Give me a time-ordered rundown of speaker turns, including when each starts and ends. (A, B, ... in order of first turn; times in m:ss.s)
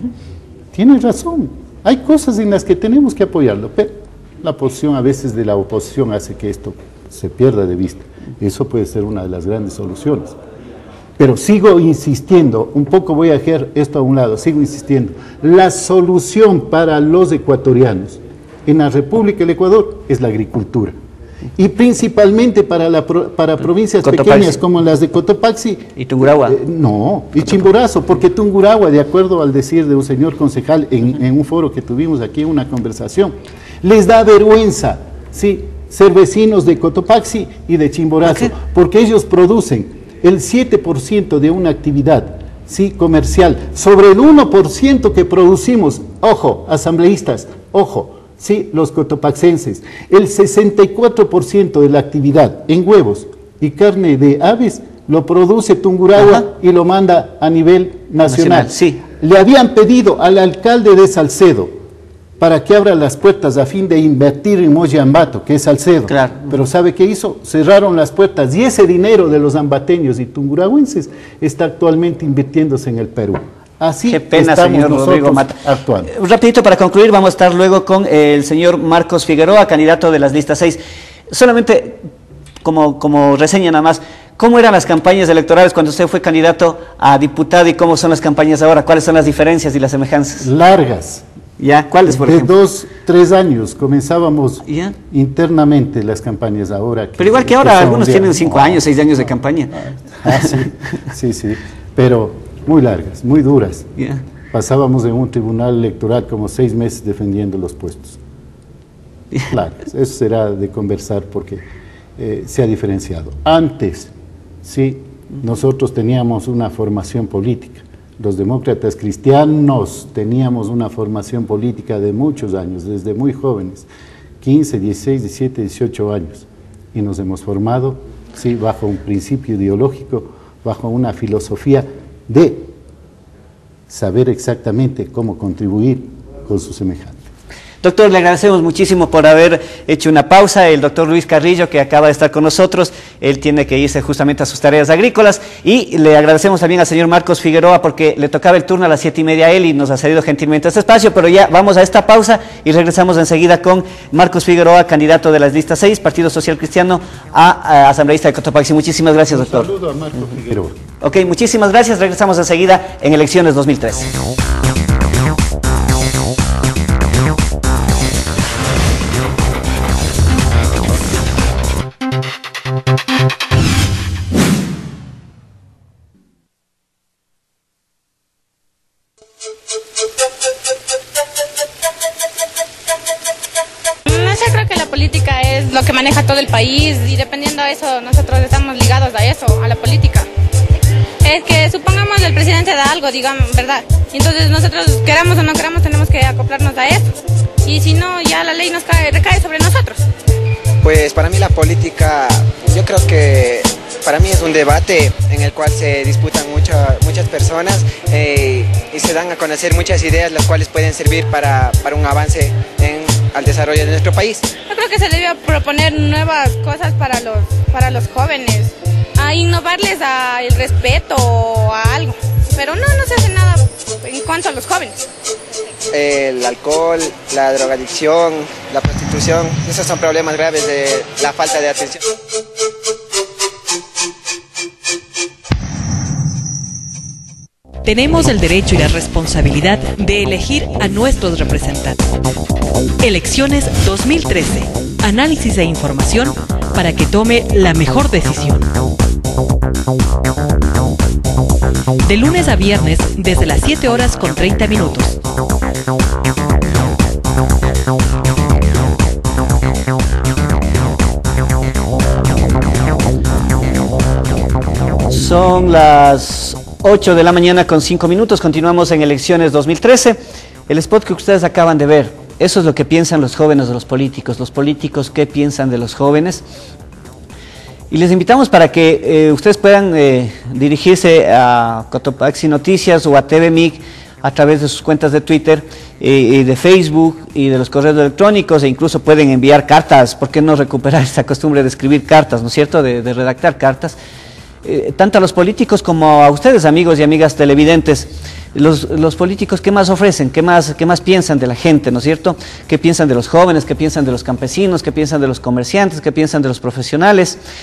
0:00.7-0:10.4 A
0:11.2-0:20.9 A
0:21.6-1:01.8 A
0:24.0-0:24.6 B
0:26.0-0:26.6 B
0:56.2-0:56.5 B
0:58.2-0:59.0 B
1:02.4-1:16.1 A
1:06.1-1:06.6 B
1:14.1-1:15.6 B
1:16.1-1:22.0 B
1:22.6-1:30.5 B
1:30.4-1:31.2 A
1:31.6-1:32.5 B
1:32.0-1:38.9 A
1:34.7-1:34.9 B
1:37.2-1:40.6 B
1:39.7-1:43.9 A
1:44.5-1:48.2 A
1:49.5-1:51.6 A
1:52.2-1:54.1 A
1:54.6-2:03.9 A
2:04.4-2:12.7 A
2:13.9-2:17.2 A
2:17.8-2:39.7 B
2:39.3-2:40.8 A
2:41.0-2:44.1 B
3:04.0-3:10.3 C
3:11.2-3:17.1 C
3:17.6-3:20.0 C
3:20.8-3:34.5 D
3:34.7-3:44.9 C
3:45.9-3:52.0 D
3:57.8-4:02.0 E
4:03.0-4:08.7 E
4:12.0-4:15.2 E
4:25.1-4:36.4 B
4:37.9-4:54.0 B
4:54.6-5:07.4 B